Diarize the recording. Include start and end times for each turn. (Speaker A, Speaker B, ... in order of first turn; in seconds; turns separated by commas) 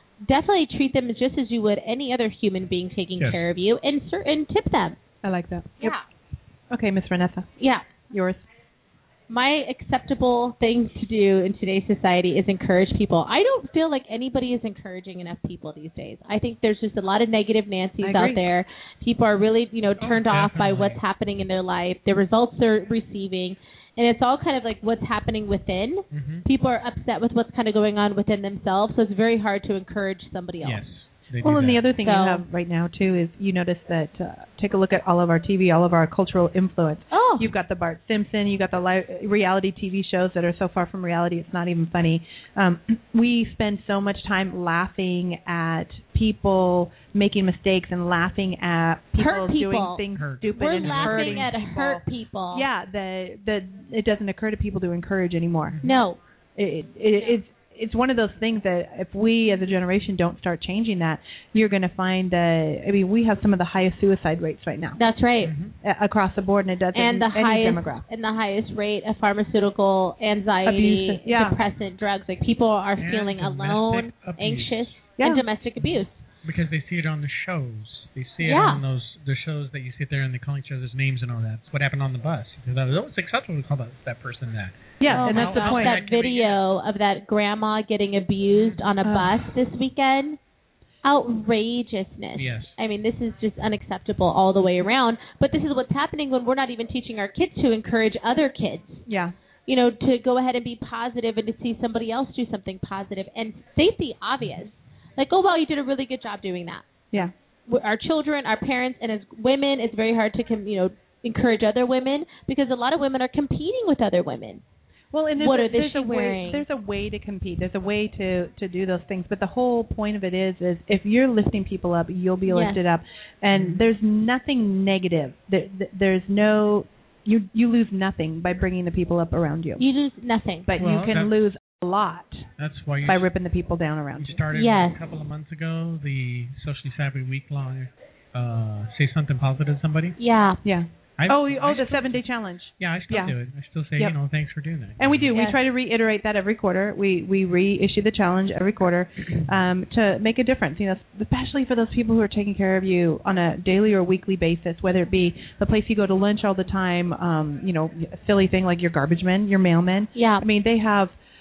Speaker A: 0.2-5.0, Speaker B: 3.2-3.4, Speaker C: 5.2-6.0, Speaker C: 6.7-7.5, Speaker A: 7.6-7.9, Speaker C: 8.1-8.4, Speaker A: 9.3-30.8, Speaker C: 18.0-18.4, Speaker B: 20.0-21.0, Speaker B: 26.1-26.4, Speaker B: 30.6-31.9, Speaker C: 31.4-55.8, Speaker A: 32.0-32.4, Speaker A: 37.1-37.5, Speaker A: 49.2-50.0, Speaker B: 50.1-51.5, Speaker A: 50.5-52.7, Speaker B: 55.7-56.0, Speaker A: 55.8-56.2, Speaker C: 56.5-65.0, Speaker A: 65.0-65.5, Speaker B: 65.4-65.8, Speaker C: 65.8-68.0, Speaker A: 66.9-76.2, Speaker C: 70.6-71.6, Speaker B: 73.0-75.0, Speaker C: 75.2-75.4, Speaker B: 75.8-86.6, Speaker A: 78.4-78.8, Speaker C: 85.0-86.0, Speaker A: 85.1-90.4, Speaker B: 88.5-88.8, Speaker C: 89.0-89.5, Speaker A: 91.0-99.0, Speaker B: 92.3-92.8, Speaker C: 99.1-99.3, Speaker A: 99.7-106.8, Speaker A: 107.7-114.6, Speaker C: 115.1-129.8, Speaker A: 115.4-116.6, Speaker A: 122.5-122.8, Speaker B: 123.5-123.8, Speaker A: 129.8-130.7, Speaker C: 130.7-132.5, Speaker B: 130.8-131.4, Speaker B: 132.6-133.3, Speaker C: 133.1-134.4, Speaker B: 134.1-140.2, Speaker A: 134.5-135.0, Speaker A: 140.2-140.6, Speaker C: 140.6-143.3, Speaker B: 141.2-142.2, Speaker B: 142.8-145.3, Speaker C: 145.0-161.1, Speaker A: 145.3-145.6, Speaker A: 160.1-160.4